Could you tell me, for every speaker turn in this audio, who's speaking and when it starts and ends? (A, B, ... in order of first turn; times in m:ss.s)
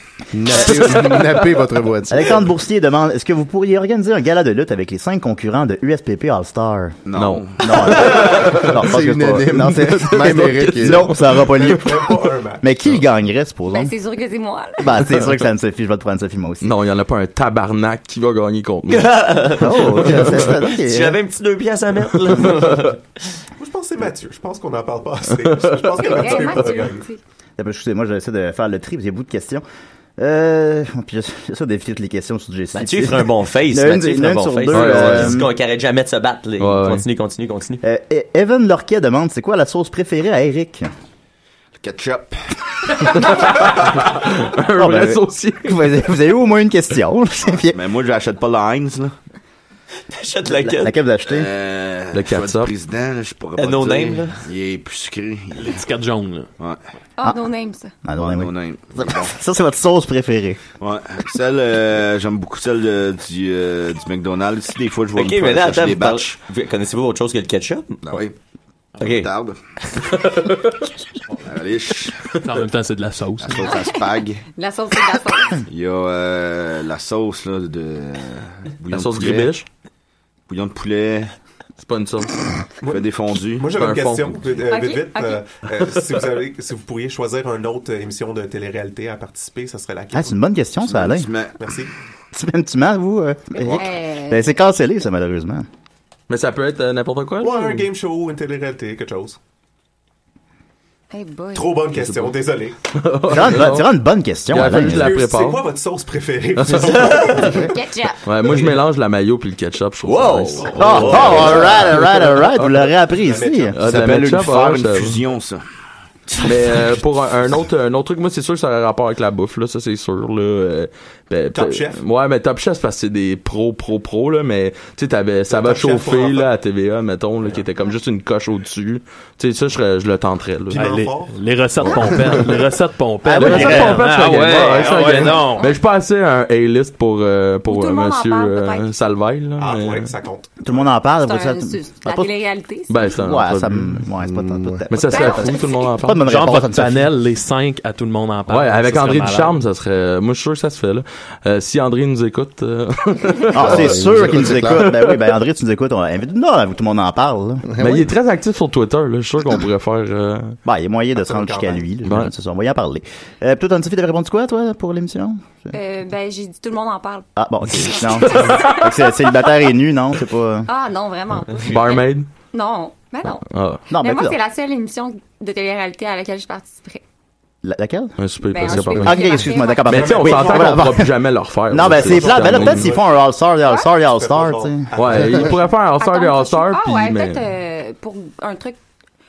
0:00.3-0:02.4 A
0:02.1-0:07.0 B
0:07.0-0:07.7 C
0:07.2-0:08.8 D
0:07.6-0:13.9 B
0:08.2-0:11.1 A
0:09.9-0:11.1 D
0:11.4-0:12.6 E
0:13.7-0:14.9 F
0:14.8-0:16.7 B
0:16.6-0:19.3 D
0:18.9-0:23.0 G
0:19.6-0:21.2 B
0:23.6-0:27.1 E
0:26.0-0:27.2 F
0:27.6-0:29.6 B
0:30.2-0:35.5 B
0:32.7-0:37.8 G
0:34.7-0:35.4 D
0:36.6-0:37.0 D
0:37.8-0:40.9 B
0:41.8-0:42.4 C
0:43.2-0:45.8 D
0:44.8-0:47.8 B
0:47.4-0:49.1 C
0:50.1-0:51.0 G
0:50.5-0:51.5 B
0:51.2-0:55.8 C
0:52.1-0:52.7 D
0:53.6-0:54.4 G
0:55.5-0:56.5 H
0:57.2-0:58.0 F
0:58.0-1:00.6 B
0:58.2-0:59.4 C
1:00.8-1:06.4 C
1:05.2-1:08.0 G
1:08.0-1:08.3 C
1:09.0-1:09.3 G
1:09.0-1:09.6 C
1:11.4-1:12.4 C
1:12.4-1:13.7 H
1:13.4-1:14.4 C
1:13.7-1:15.6 F
1:15.7-1:19.6 C
1:18.9-1:19.6 D
1:20.5-1:21.3 C
1:21.8-1:22.4 D
1:22.8-1:30.4 E
1:22.9-1:23.7 C
1:23.7-1:24.4 D
1:24.7-1:25.4 F
1:30.1-1:31.3 B
1:30.8-1:31.6 C
1:31.6-1:31.9 E
1:32.3-1:35.7 B
1:33.6-1:34.5 F
1:36.3-1:37.9 D
1:37.4-1:39.4 E
1:41.1-1:41.8 F
1:41.5-1:42.7 E
1:42.9-1:43.9 D
1:43.3-1:45.2 B
1:44.5-1:45.7 D
1:44.9-1:47.7 E
1:46.9-1:47.5 G
1:47.6-1:48.2 F
1:48.2-1:51.9 D
1:50.0-1:51.8 G
1:50.6-1:52.0 E
1:50.8-1:53.8 B
1:53.1-1:53.8 E
1:53.8-1:55.6 C
1:53.8-1:55.2 D
1:56.4-2:10.9 D
2:01.5-2:02.0 E
2:05.5-2:06.5 E
2:10.7-2:11.4 E
2:10.7-2:15.7 H
2:13.2-2:14.2 B
2:13.4-2:20.1 D
2:14.6-2:15.5 E
2:17.6-2:18.8 F
2:19.6-2:20.9 E
2:20.6-2:22.3 B
2:21.2-2:23.2 F
2:22.9-2:23.9 D
2:23.1-2:27.1 B
2:23.8-2:24.8 A
2:24.9-2:26.5 D
2:25.0-2:25.9 F
2:26.2-2:29.6 H
2:28.5-2:33.9 D
2:33.5-2:37.6 B
2:33.5-2:34.9 A
2:34.7-2:35.2 D
2:37.7-2:38.1 A
2:37.8-2:40.6 D
2:40.6-2:45.7 B
2:41.2-2:41.8 E
2:42.0-2:42.3 D
2:45.7-2:47.3 F
2:47.4-2:50.7 B
2:47.8-2:49.0 F
2:50.7-2:53.4 F
2:51.6-2:52.3 D
2:53.5-2:53.8 D
2:53.9-2:54.4 B
2:54.0-2:57.0 F
2:57.6-2:58.1 B
2:58.2-3:02.9 D
2:58.5-2:59.9 F
2:58.7-3:01.1 B
2:59.8-3:01.0 E
3:01.7-3:04.9 B
3:01.9-3:03.2 E
3:03.9-3:05.6 E
3:04.9-3:07.4 D
3:06.0-3:08.8 F